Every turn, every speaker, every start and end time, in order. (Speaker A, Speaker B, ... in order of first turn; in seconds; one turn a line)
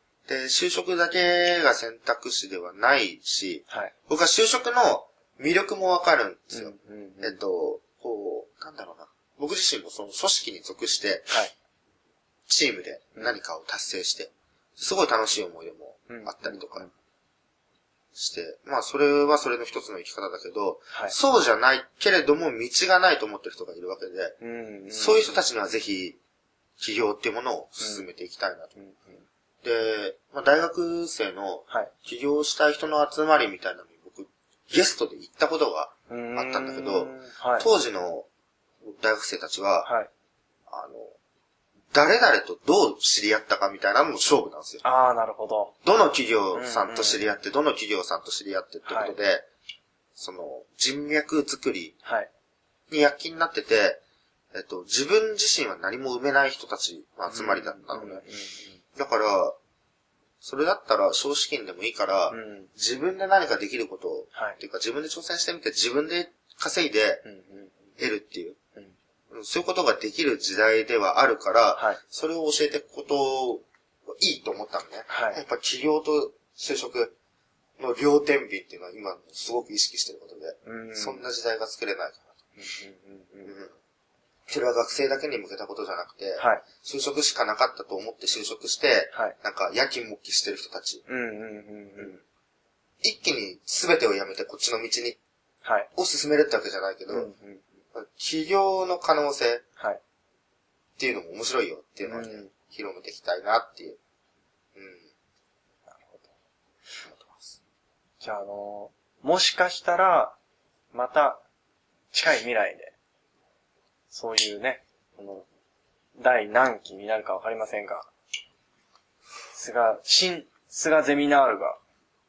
Speaker A: 0.3-11.4
Speaker B: 6.5-7.4
Speaker A: 12.5-16.9
Speaker B: 16.1-16.9
Speaker A: 18.1-24.4
Speaker B: 20.9-21.2
Speaker B: 24.4-25.4
Speaker A: 24.9-26.2
Speaker A: 26.8-28.8
Speaker B: 27.8-28.1
Speaker B: 28.8-29.2
Speaker A: 29.6-38.3
Speaker B: 36.1-37.7
Speaker A: 38.9-39.9
Speaker B: 39.8-40.1
Speaker A: 40.7-41.1
Speaker A: 41.9-44.8
Speaker B: 44.8-45.7
Speaker A: 45.8-49.5
Speaker B: 46.5-47.4
Speaker B: 48.9-49.2
Speaker A: 50.2-52.0
Speaker B: 52.0-52.3
Speaker A: 52.9-54.0
Speaker A: 54.5-58.3
Speaker B: 57.3-58.8
Speaker A: 59.0-59.6
Speaker A: 60.4-67.2
Speaker B: 62.3-62.7
Speaker B: 64.3-64.6
Speaker B: 67.2-67.8
Speaker A: 68.0-68.6
Speaker A: 69.3-73.6
Speaker A: 74.2-77.1
Speaker B: 75.1-75.4
Speaker A: 77.8-82.3
Speaker B: 80.6-81.2
Speaker B: 82.6-83.5
Speaker A: 83.5-83.7
Speaker A: 84.5-91.0
Speaker B: 86.4-86.6
Speaker B: 91.1-92.2
Speaker A: 93.0-95.2
Speaker B: 95.6-95.9
Speaker A: 96.0-97.3
Speaker B: 97.1-97.6
Speaker A: 97.9-99.6
Speaker A: 101.0-104.0
Speaker B: 102.0-102.5
Speaker A: 104.8-105.1
Speaker B: 105.9-106.3
Speaker A: 107.1-107.6
Speaker B: 108.2-110.4
Speaker B: 110.9-111.4
Speaker B: 112.1-112.9
Speaker B: 114.1-115.5
Speaker B: 116.2-118.1
Speaker B: 119.5-121.8